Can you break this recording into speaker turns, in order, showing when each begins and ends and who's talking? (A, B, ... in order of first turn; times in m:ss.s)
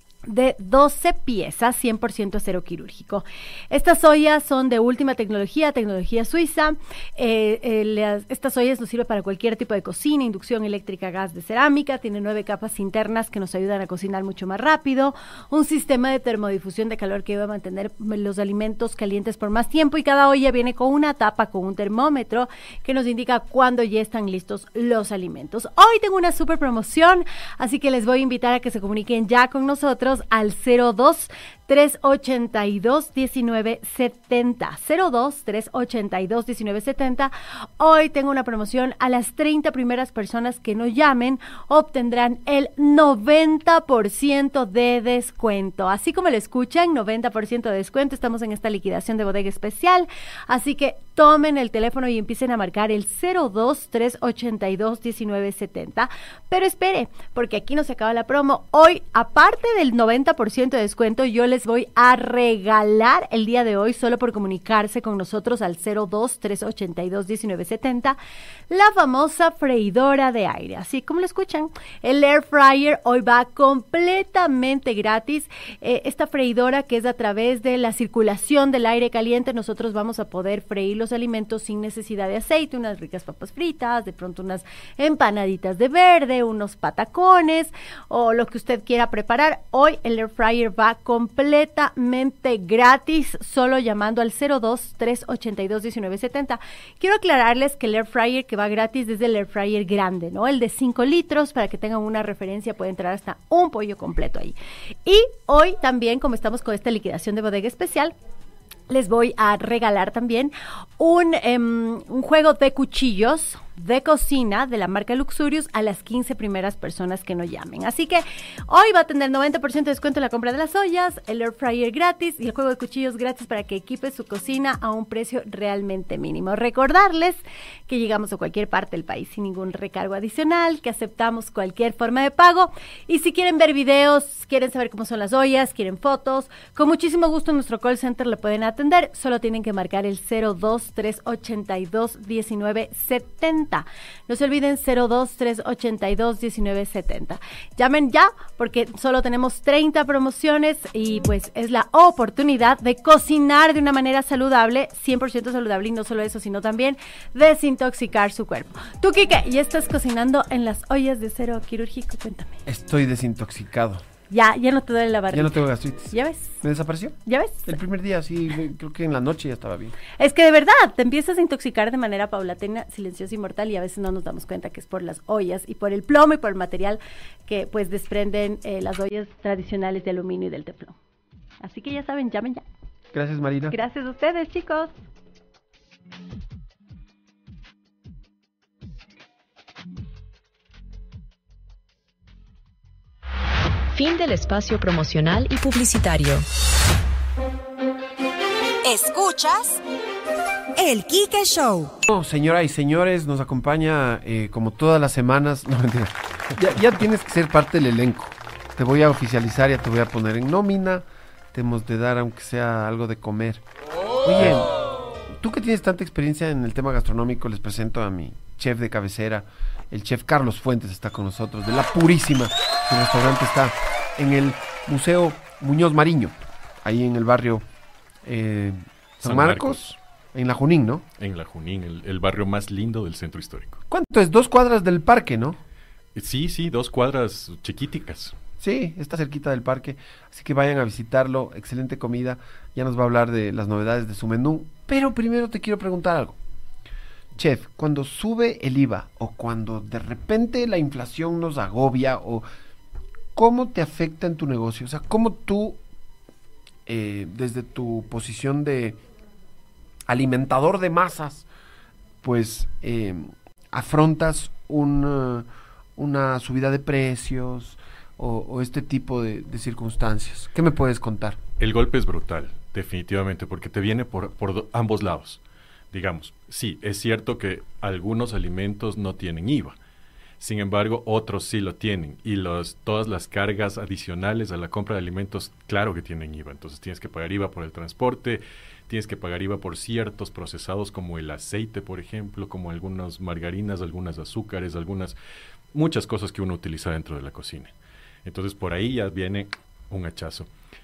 0:00.3-1:08.2 A
1:08.7-1:48.1 A
1:48.9-2:42.6 A
2:42.7-2:44.0 B
2:44.3-2:46.6 A
2:45.3-2:50.0 B
2:47.3-2:47.8 A
2:50.2-3:01.0 A
3:01.6-3:02.6 A
3:03.1-3:03.8 B
3:03.7-3:04.9 A
3:13.9-3:16.5 C
3:18.9-3:19.8 D
3:20.8-3:21.9 D
3:22.1-3:33.6 B
3:34.2-3:34.7 B
3:35.3-3:47.6 B
3:48.2-3:51.0 B
3:49.2-3:49.9 E
3:51.2-3:53.8 E
3:53.9-3:55.6 B
3:56.2-3:58.4 E
3:58.6-4:06.4 B
4:07.4-4:12.4 B
4:13.4-4:15.8 B
4:16.9-4:19.0 B
4:20.1-4:21.5 B
4:22.2-4:31.4 B
4:31.6-4:35.4 E
4:35.9-4:39.8 E
4:40.4-4:55.2 E
4:55.7-4:57.7 E
4:58.2-5:00.5 E